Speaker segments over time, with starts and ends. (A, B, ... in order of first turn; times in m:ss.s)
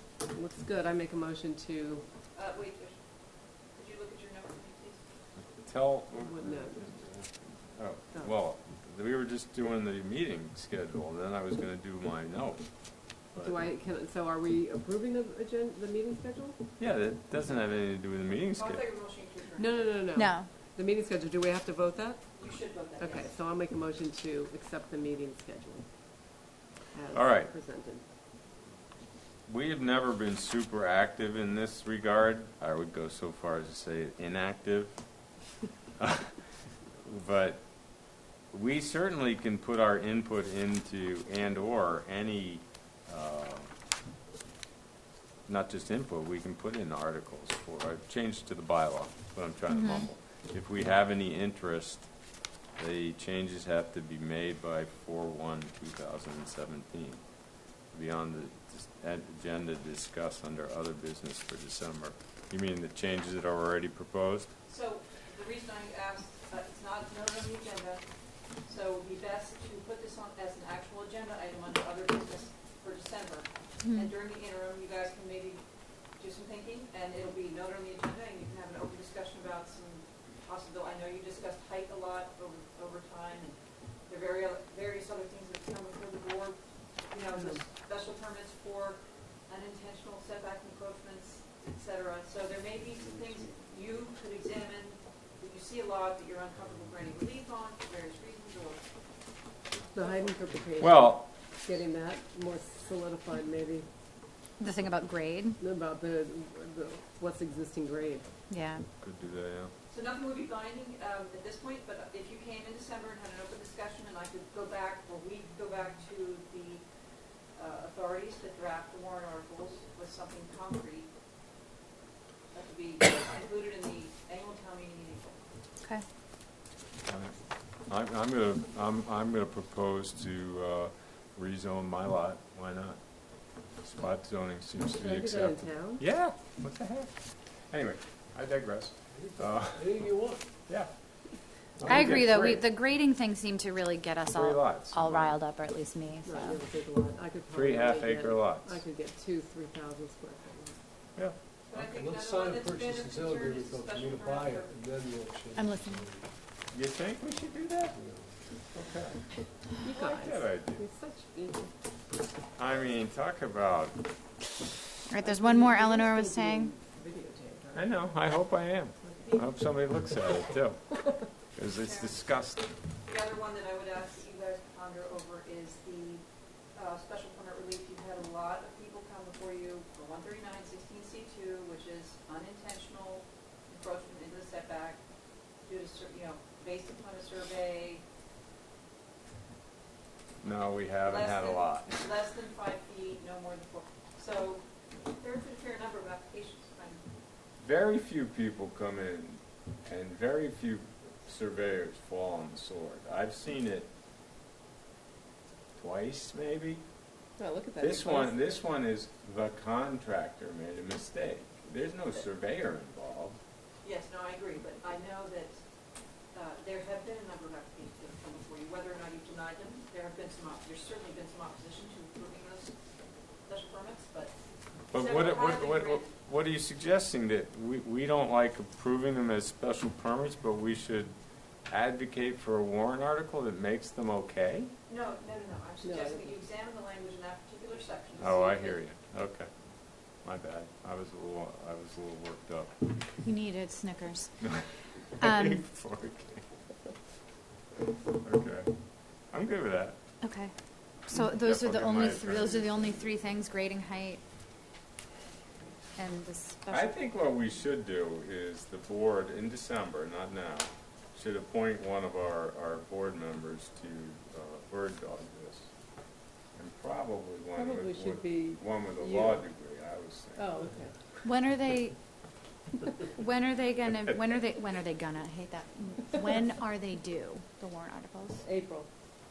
0:00.3-0:02.0 A
0:02.3-0:03.0 B
0:03.7-0:05.0 B
0:05.6-0:13.6 C
0:06.2-0:06.8 A
0:13.4-0:16.6 A
0:16.8-0:18.8 C
0:18.5-0:20.0 B
0:19.6-0:25.8 A
0:20.1-0:20.5 D
0:22.4-0:23.3 B
0:26.9-0:28.0 A
0:27.1-0:27.5 C
0:29.5-0:35.0 C
0:36.0-0:36.4 C
0:37.0-0:43.7 C
0:45.5-0:52.1 C
0:49.7-0:50.1 D
0:52.8-0:57.2 C
0:57.9-1:04.6 C
1:04.7-1:08.1 B
1:08.6-1:15.6 B
1:13.8-1:14.1 D
1:16.1-1:23.6 B
1:24.1-1:38.8 B
1:27.3-1:27.6 A
1:39.9-1:40.4 B
1:39.9-1:43.8 A
1:40.8-1:41.3 C
1:44.6-1:45.6 D
1:45.6-1:48.3 A
1:48.5-1:48.9 D
1:49.0-1:49.7 C
1:49.9-1:56.8 B
1:57.5-2:01.1 B
2:02.5-2:05.3 B
2:07.0-2:13.0 C
2:13.8-2:17.2 C
2:14.9-2:16.0 A
2:17.7-2:19.8 C
2:19.4-2:20.4 E
2:21.8-2:22.6 C
2:21.8-2:26.6 D
2:24.3-2:25.4 C
2:26.2-2:30.8 A
2:27.5-2:28.8 C
2:31.7-2:34.8 B
2:31.7-2:36.3 E
2:35.6-2:36.1 D
2:36.7-2:38.0 C
2:38.0-2:38.3 E
2:38.7-2:39.3 C
2:39.8-2:41.7 A
2:39.9-2:40.8 C
2:42.5-2:44.1 C
2:45.1-2:46.7 D
2:45.2-2:47.9 A
2:47.7-2:52.6 C
2:49.0-2:49.4 A
2:51.6-2:52.2 B
2:53.0-2:56.2 B
2:56.7-3:05.0 B
3:05.6-3:08.0 B
3:10.4-3:12.1 C
3:11.0-3:17.0 B
3:17.6-3:23.9 C
3:25.8-3:26.8 C
3:27.4-3:28.4 A
3:27.8-3:33.4 C
3:33.8-3:35.6 B
3:36.3-3:42.7 B
3:43.4-3:44.3 B
3:44.9-3:46.1 B
3:44.9-3:51.1 C
3:51.7-3:54.7 C
3:54.9-3:58.8 B
3:55.8-3:56.4 A
3:58.2-3:59.5 C
4:00.1-4:02.9 C
4:03.2-4:04.6 D
4:05.2-4:06.4 C
4:05.2-4:05.6 D
4:08.2-4:10.0 C
4:10.2-4:10.5 D
4:11.0-4:14.2 D
4:11.1-4:13.1 C
4:16.0-4:16.9 D
4:16.7-4:25.7 C
4:26.5-4:30.7 C
4:27.5-4:29.4 A
4:30.4-4:31.2 A
4:31.2-4:32.0 D
4:33.1-4:38.4 D
4:38.4-4:38.9 A